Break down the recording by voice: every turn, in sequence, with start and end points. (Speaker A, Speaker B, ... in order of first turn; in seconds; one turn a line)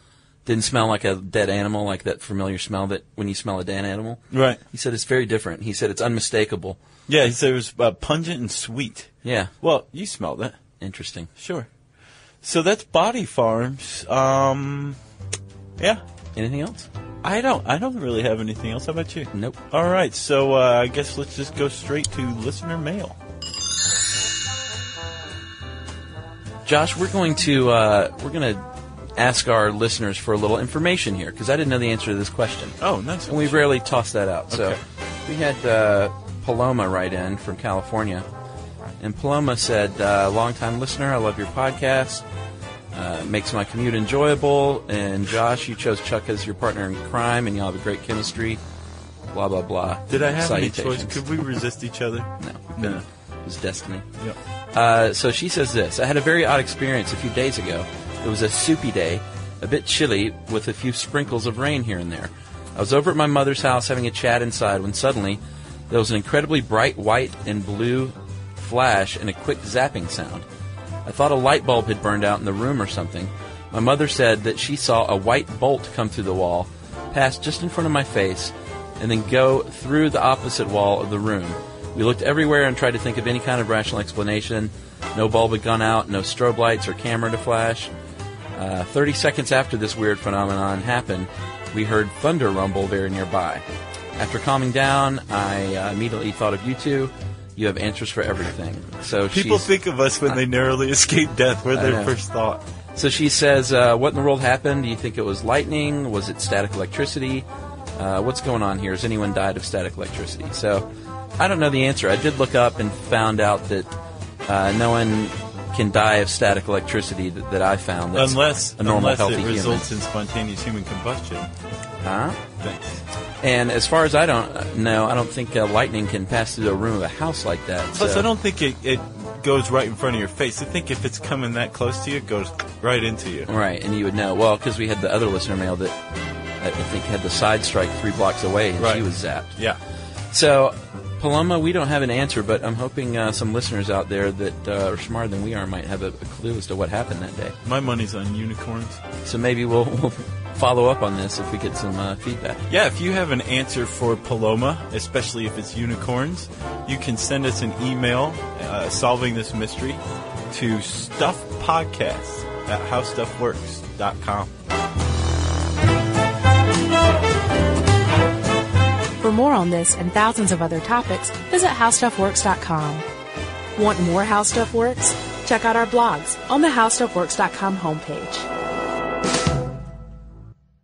Speaker A: 0.5-6.8
Speaker B: 4.3-4.6
Speaker B: 7.1-10.6
Speaker A: 9.2-9.5
Speaker A: 10.8-11.3
Speaker B: 11.4-11.7
Speaker B: 12.4-15.0
Speaker B: 15.8-16.0
Speaker A: 16.4-16.9
Speaker B: 17.2-23.2
Speaker A: 19.3-19.6
Speaker A: 26.6-28.6
Speaker A: 29.2-32.8
Speaker B: 32.8-33.6
Speaker A: 33.3-38.2
Speaker B: 34.5-34.8
Speaker A: 39.0-42.2
Speaker A: 42.9-48.6
Speaker A: 49.3-51.2
Speaker B: 50.1-53.0
Speaker A: 52.4-54.1
Speaker A: 54.7-70.5
Speaker A: 71.0-87.9
Speaker A: 88.5-93.7
Speaker A: 94.2-99.7
Speaker B: 99.3-102.6
Speaker A: 101.7-102.2
Speaker A: 103.0-110.9
Speaker A: 111.4-113.9
Speaker A: 114.5-119.9
Speaker B: 118.1-121.5
Speaker A: 122.0-122.4
Speaker B: 122.6-123.0
Speaker A: 123.4-128.3
Speaker B: 128.0-133.5
Speaker A: 133.5-135.9
Speaker A: 136.6-139.6
Speaker B: 138.8-139.8
Speaker A: 140.3-147.6
Speaker B: 147.6-149.0
Speaker A: 149.2-152.6
Speaker B: 152.7-164.5
Speaker C: 169.2-173.0
Speaker C: 173.8-178.5